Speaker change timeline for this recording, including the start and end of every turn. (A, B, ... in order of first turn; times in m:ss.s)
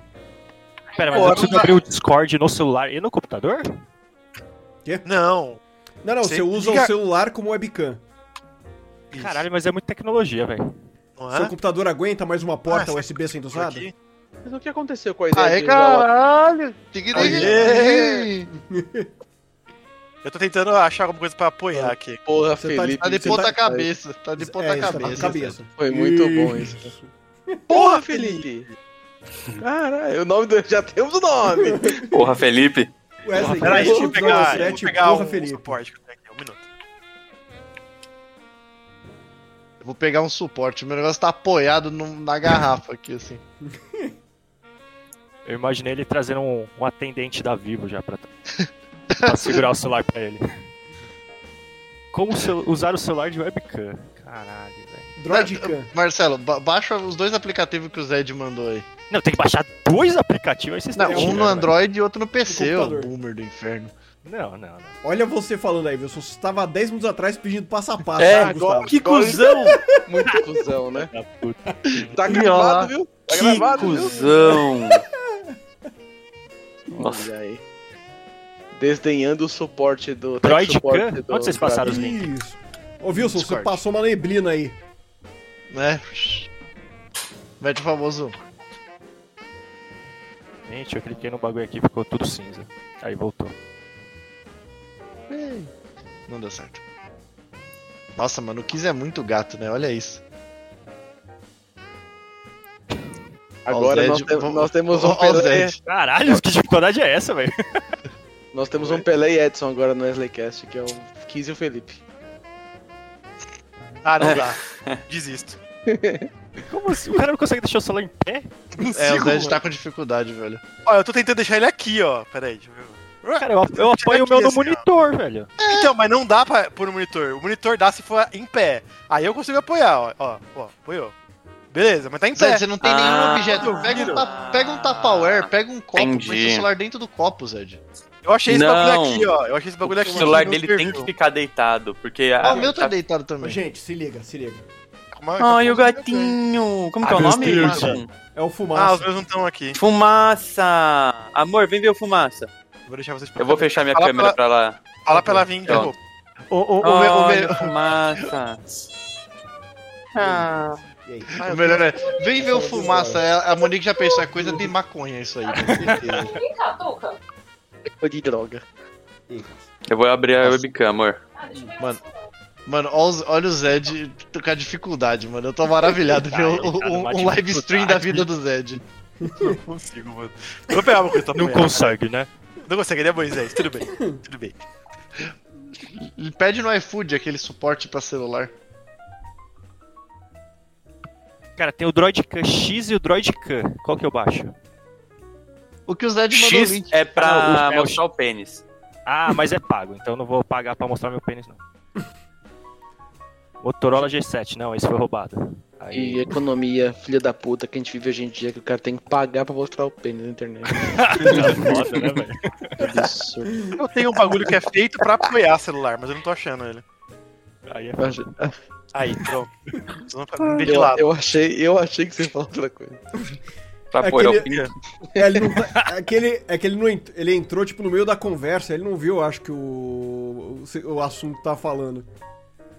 0:01.0-0:03.7 A
0:01.0-0:01.3 B
0:01.1-0:01.8 C
0:05.0-0:05.6 C
0:06.0-0:08.0 D
0:06.2-0:06.9 C
0:09.1-0:09.5 C
0:09.1-0:10.7 A
0:11.2-0:11.5 C
0:11.3-0:13.9 D
0:12.7-0:13.9 C
0:14.4-0:16.1 E
0:15.3-0:18.5 F
0:17.1-0:18.3 C
0:17.2-0:17.6 D
0:18.6-0:19.1 D
0:20.2-0:22.2 C
0:22.3-0:23.9 E
0:22.6-0:23.6 D
0:23.0-0:25.6 F
0:24.4-0:27.6 D
0:25.8-0:26.9 E
0:27.7-0:28.5 C
0:27.7-0:28.7 E
0:29.6-0:32.1 E
0:31.6-0:32.0 D
0:32.1-0:32.9 G
0:33.2-0:35.8 D
0:33.4-0:34.8 A
0:33.5-0:36.7 C
0:33.7-0:34.4 E
0:39.8-0:43.4 F
0:43.7-0:44.1 D
0:45.4-0:48.3 A
0:48.6-0:49.6 F
0:49.2-0:50.4 A
0:52.1-0:55.1 A
0:55.2-0:55.9 D
0:55.3-0:58.9 F
0:59.1-1:01.7 A
1:01.0-1:03.9 F
1:01.0-1:01.4 D
1:02.4-1:03.1 D
1:04.2-1:05.0 A
1:05.0-1:09.0 D
1:08.2-1:09.8 G
1:08.2-1:11.1 E
1:10.9-1:11.8 A
1:12.0-1:14.4 E
1:12.1-1:12.9 F
1:13.3-1:15.0 G
1:16.9-1:17.6 E
1:17.0-1:17.3 G
1:18.7-1:22.0 E
1:20.4-1:22.3 A
1:21.8-1:24.8 D
1:23.1-1:23.8 F
1:25.7-1:26.5 F
1:27.6-1:28.4 F
1:30.6-1:33.6 A
1:35.3-1:35.7 F
1:36.3-1:36.8 F
1:38.2-1:40.2 F
1:43.7-1:45.8 E
1:43.7-1:45.8 F
1:45.9-1:47.8 A
1:48.5-1:52.0 E
1:54.0-1:55.6 C
1:54.2-1:55.0 G
1:55.9-1:56.3 E
1:56.7-1:58.5 A
1:58.8-2:00.6 F
1:58.8-1:59.6 C
2:00.8-2:04.8 C
2:03.4-2:05.5 A
2:05.6-2:05.9 F
2:05.6-2:11.1 C
2:11.7-2:12.7 C
2:12.4-2:17.8 F
2:12.8-2:16.7 G
2:13.4-2:14.2 C
2:18.2-2:21.1 C
2:18.5-2:23.0 G
2:20.0-2:20.5 D
2:22.4-2:23.6 F
2:23.4-2:24.7 D
2:25.1-2:26.4 C
2:25.4-2:28.1 G
2:27.0-2:28.0 C
2:27.2-2:29.1 D
2:28.7-2:29.8 C
2:29.7-2:32.5 G
2:32.9-2:34.4 C
2:33.4-2:34.9 G
2:35.0-2:36.0 C
2:35.6-2:35.9 G
2:36.5-2:37.7 F
2:36.8-2:38.6 G
2:40.2-2:40.8 G
2:40.2-2:40.5 D
2:41.0-2:41.4 D
2:41.4-2:41.9 C
2:41.4-2:46.4 F
2:41.9-2:42.5 B
2:42.4-2:43.2 D
2:43.6-2:44.2 B
2:45.4-2:47.2 B
2:45.7-2:46.3 A
2:47.9-2:48.6 E
2:49.3-2:49.7 D
2:49.9-2:51.2 G
2:51.4-2:52.3 B
2:52.7-2:58.8 F
2:56.0-2:58.3 A
2:59.2-2:59.6 D
2:59.3-3:02.0 C
3:01.3-3:02.3 A
3:02.6-3:04.6 C
3:06.0-3:08.5 F
3:11.6-3:14.5 A
3:15.9-3:16.9 F
3:16.3-3:18.6 G
3:17.1-3:18.0 A
3:19.1-3:21.6 A
3:23.6-3:26.4 A
3:25.9-3:31.8 E
3:30.7-3:32.9 A
3:31.3-3:32.1 G
3:32.8-3:33.1 G
3:32.8-3:33.6 E
3:33.7-3:36.8 C
3:37.7-3:38.3 A
3:38.0-3:38.5 E
3:38.9-3:41.1 C
3:40.6-3:43.0 E
3:43.9-3:44.7 G
3:44.0-3:44.6 D
3:45.1-3:52.1 D